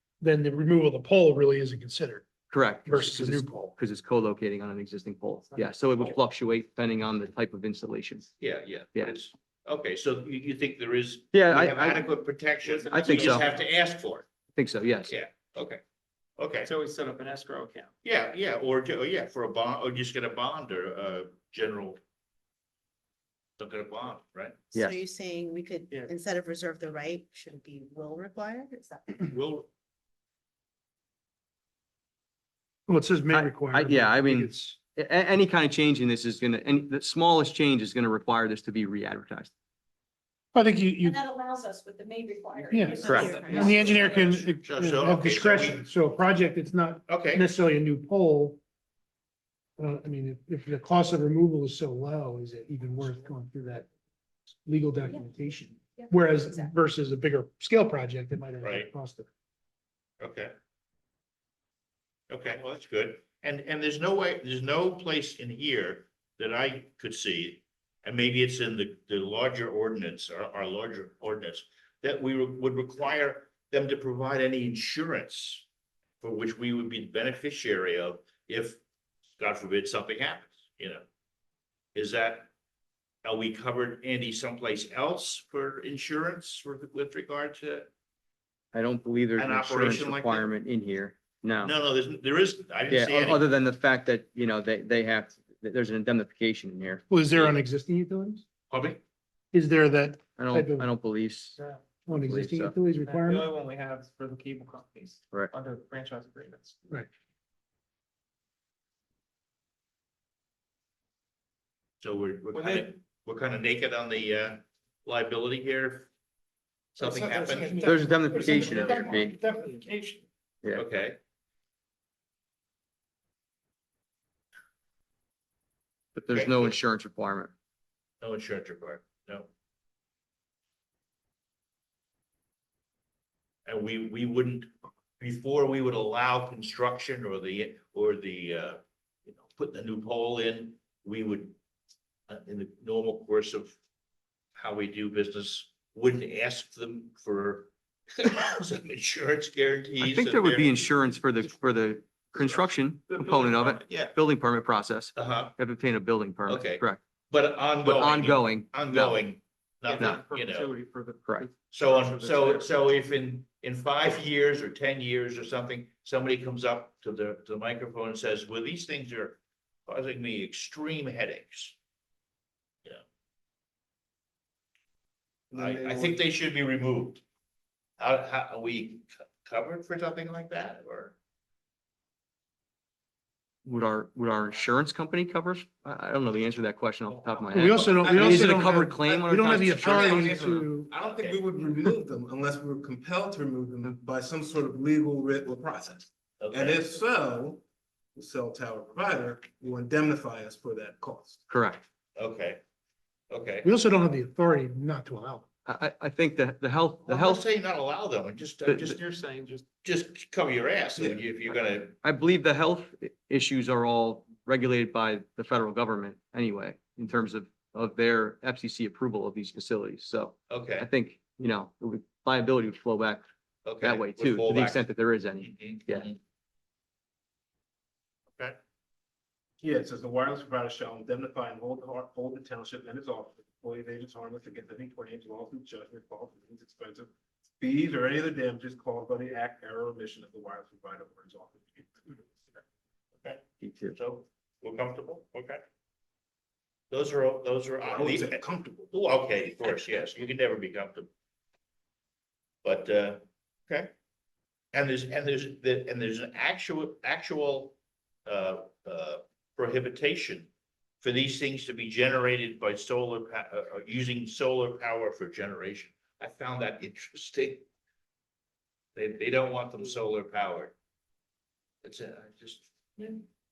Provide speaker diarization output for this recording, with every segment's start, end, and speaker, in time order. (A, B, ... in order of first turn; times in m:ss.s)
0:00.2-0:02.2 A
0:02.5-0:08.3 B
0:02.8-0:03.7 A
0:08.4-0:14.3 C
0:11.3-0:12.0 B
0:12.5-0:13.7 D
0:12.9-0:13.4 B
0:14.5-0:15.1 B
0:15.1-0:15.8 C
0:16.4-0:16.7 C
0:16.6-0:17.9 D
0:18.0-0:22.0 C
0:23.6-0:24.6 C
0:24.7-0:29.3 E
0:29.3-0:29.7 C
0:32.9-0:34.8 A
0:33.3-0:39.5 B
0:40.5-0:41.2 A
0:41.0-0:43.8 F
0:42.7-0:48.6 A
0:42.9-0:44.3 E
0:43.0-0:43.4 B
0:43.9-0:45.8 C
0:47.1-0:47.5 C
0:49.8-0:53.9 A
0:54.6-0:59.3 A
0:56.0-0:56.7 F
0:58.6-0:58.9 C
1:00.2-1:00.5 C
1:02.3-1:15.6 C
1:16.2-1:18.8 C
1:19.4-1:21.0 C
1:21.9-1:22.5 C
1:23.2-1:27.9 C
1:28.7-1:31.7 B
1:29.4-1:30.5 C
1:31.6-1:33.5 C
1:32.9-1:37.0 B
1:37.1-1:38.4 A
1:38.7-1:39.0 C
1:39.5-1:40.9 A
1:40.4-1:41.6 B
1:41.6-1:41.9 D
1:42.0-1:43.5 A
1:42.2-1:42.7 B
1:43.0-1:46.8 D
1:52.0-1:56.1 C
1:52.5-1:52.9 D
1:56.9-1:58.0 C
1:57.0-1:59.5 G
1:57.8-1:59.4 B
2:00.7-2:01.2 C
2:06.1-2:07.5 B
2:06.3-2:06.8 C
2:08.2-2:09.5 C
2:13.7-2:21.5 C
2:22.3-2:23.7 C
2:24.6-2:30.9 C
2:30.0-2:37.0 B
2:33.2-2:34.2 C
2:35.2-2:35.5 C
2:36.5-2:40.7 C
2:37.8-2:39.2 B
2:39.8-2:42.9 D
2:41.7-2:51.7 C
2:55.5-2:56.2 G
2:55.5-2:57.2 C
2:58.0-3:01.1 C
3:03.6-3:10.6 B
3:07.5-3:10.9 A
3:07.8-3:17.6 G
3:11.0-3:11.4 C
3:16.4-3:16.8 C
3:18.1-3:21.4 G
3:21.5-3:21.8 B
3:22.2-3:22.6 C
3:23.3-3:23.7 C
3:23.6-3:25.4 A
3:25.6-3:27.4 B
3:27.0-3:29.0 C
3:28.8-3:29.6 D
3:29.8-3:32.0 C
3:32.0-3:43.2 B
3:40.5-3:40.9 C
3:43.6-3:44.9 C
3:43.8-3:46.1 B
3:45.4-3:46.2 C
3:49.6-4:02.2 G
4:03.6-4:03.9 B
4:03.9-4:05.6 C
4:06.9-4:11.1 C
4:07.8-4:08.9 G
4:12.6-4:13.9 C
4:14.7-4:20.5 C
4:21.0-4:27.6 C
4:29.0-4:30.7 C
4:31.8-4:33.2 C